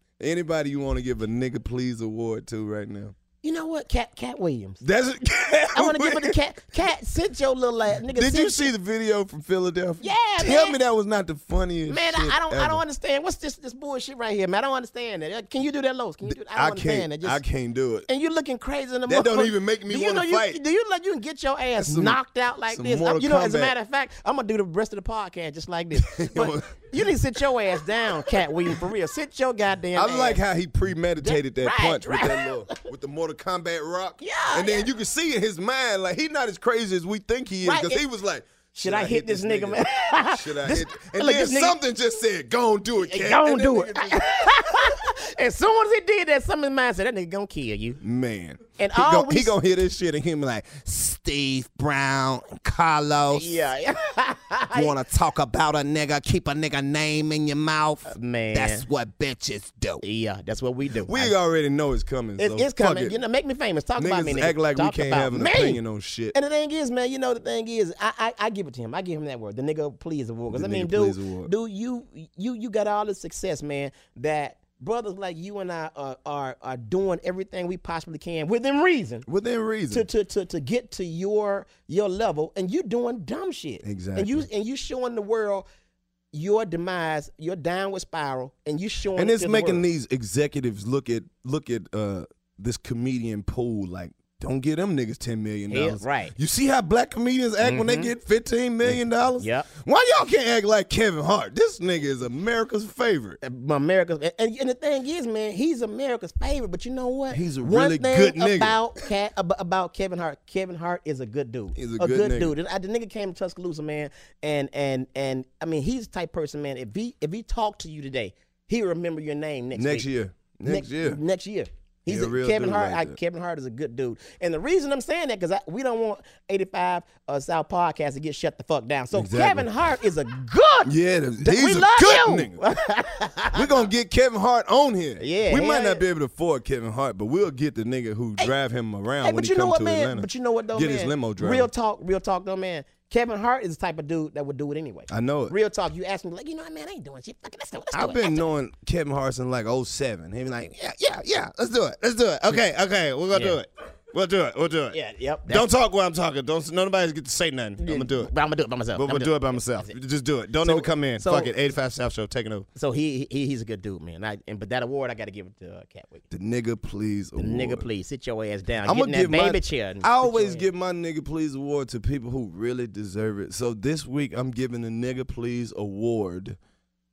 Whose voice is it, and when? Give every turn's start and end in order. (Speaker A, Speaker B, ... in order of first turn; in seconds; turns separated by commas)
Speaker A: 0.2-3.1, Speaker B: 3.4-4.8, Speaker A: 4.8-6.4, Speaker B: 5.7-8.7, Speaker A: 8.1-12.8, Speaker B: 10.0-10.8, Speaker B: 11.9-17.4, Speaker A: 16.3-18.1, Speaker B: 18.1-30.4, Speaker A: 19.1-20.6, Speaker A: 21.8-23.8, Speaker A: 26.0-27.1, Speaker A: 28.3-28.8, Speaker A: 29.9-45.0, Speaker B: 31.2-32.8, Speaker B: 34.2-34.9, Speaker B: 37.6-38.0, Speaker B: 38.7-41.8, Speaker B: 43.0-48.0, Speaker A: 48.0-53.6, Speaker B: 48.8-49.5, Speaker B: 53.3-55.0, Speaker A: 54.7-60.0, Speaker B: 58.1-58.9, Speaker B: 60.0-61.4, Speaker A: 61.0-63.2, Speaker B: 62.4-65.8, Speaker A: 64.0-66.3, Speaker B: 66.3-79.3, Speaker A: 70.5-71.5, Speaker A: 79.3-80.1, Speaker B: 79.9-85.7, Speaker A: 83.8-84.5, Speaker B: 86.3-89.8, Speaker A: 89.2-103.4, Speaker B: 95.7-96.3, Speaker B: 97.6-98.1, Speaker B: 98.8-99.7, Speaker B: 103.4-120.1, Speaker A: 107.3-108.8, Speaker A: 111.8-112.5, Speaker A: 119.7-121.2, Speaker B: 120.7-133.9, Speaker A: 122.1-123.2, Speaker A: 129.1-129.7, Speaker A: 130.8-132.6, Speaker A: 133.5-141.7, Speaker B: 135.2-136.0, Speaker B: 139.2-148.4, Speaker A: 145.1-145.5, Speaker A: 147.9-158.3, Speaker B: 153.3-153.6, Speaker B: 154.9-155.7, Speaker B: 157.8-159.9, Speaker A: 158.9-162.7, Speaker B: 160.6-161.5, Speaker B: 162.8-166.2, Speaker A: 166.3-167.9, Speaker B: 167.4-170.7, Speaker A: 168.8-176.6